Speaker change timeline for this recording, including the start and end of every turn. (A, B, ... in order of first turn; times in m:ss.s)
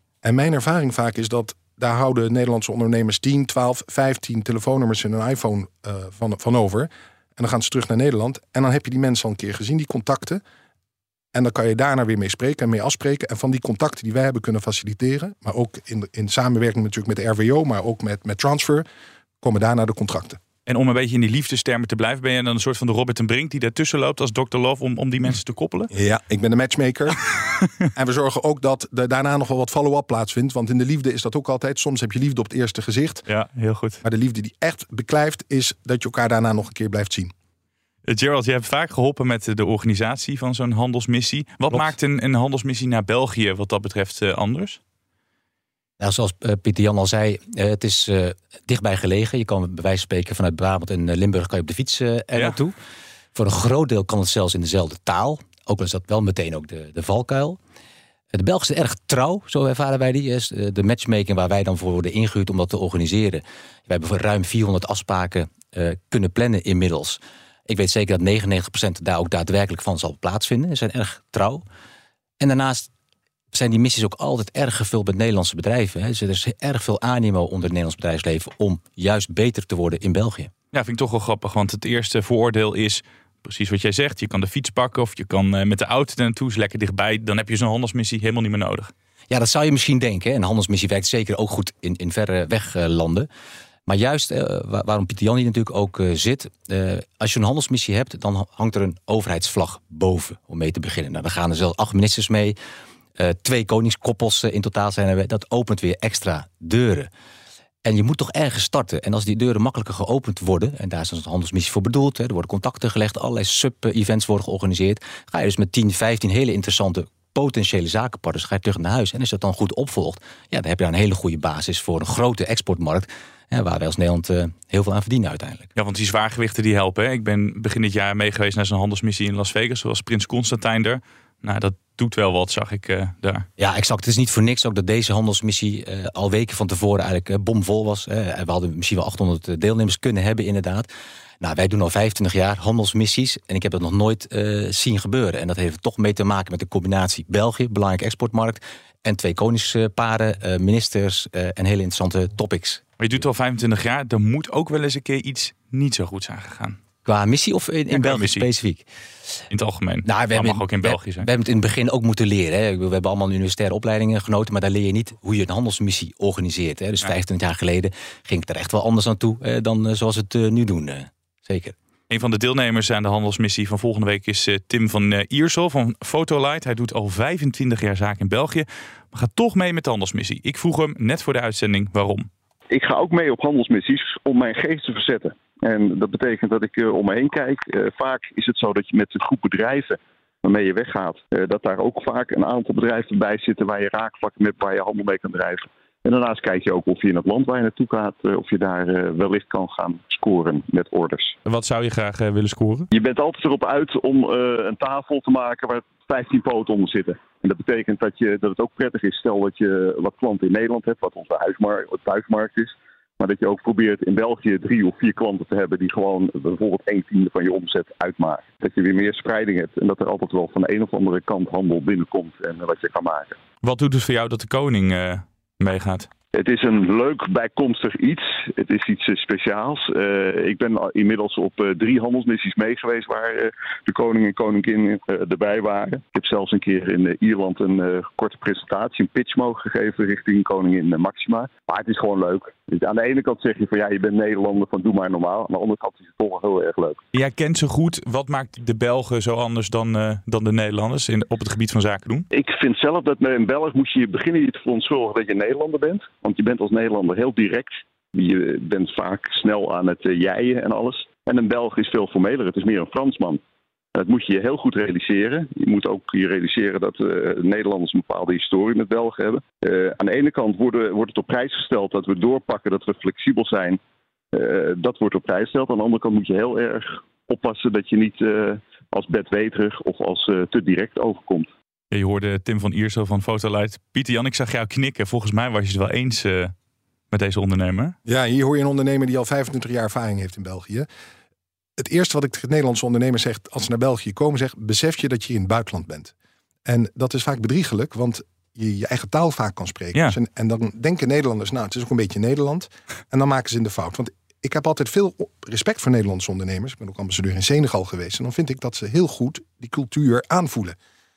0:00.2-0:10.4 A
0:11.3-0:18.8 A
0:19.4-0:20.4 A
0:20.6-0:25.9 B
0:25.9-0:27.4 A
0:27.9-0:33.2 A
0:33.3-0:34.0 B
0:34.0-0:37.3 A
0:38.0-0:44.8 B
0:46.0-0:52.7 C
0:53.3-0:57.6 C
0:58.3-1:11.6 C
1:12.4-1:12.9 C
1:13.5-1:20.5 C
1:20.7-1:28.9 B
1:29.3-1:33.3 C
1:33.9-1:42.6 C
1:43.2-1:47.1 C
1:47.8-2:05.7 C
2:05.8-2:13.5 B
2:13.6-2:20.9 C
2:21.4-2:32.8 C
2:33.0-2:36.8 B
2:37.0-2:38.8 C
2:37.9-2:38.4 B
2:39.5-2:41.2 B
2:40.0-2:51.7 C
2:52.1-3:02.3 B
3:02.7-3:21.4 D
3:21.4-3:22.9 B
3:22.9-3:43.4 D
3:43.6-3:46.1 B
3:46.3-4:07.0 D
4:07.1-4:12.2 B
4:12.3-4:23.4 D
4:23.9-4:33.8 D
4:34.3-4:41.5 D
4:41.9-4:46.5 B
4:47.1-4:47.9 B
4:48.0-4:50.9 A
4:51.8-4:56.1 A
4:56.6-5:10.8 A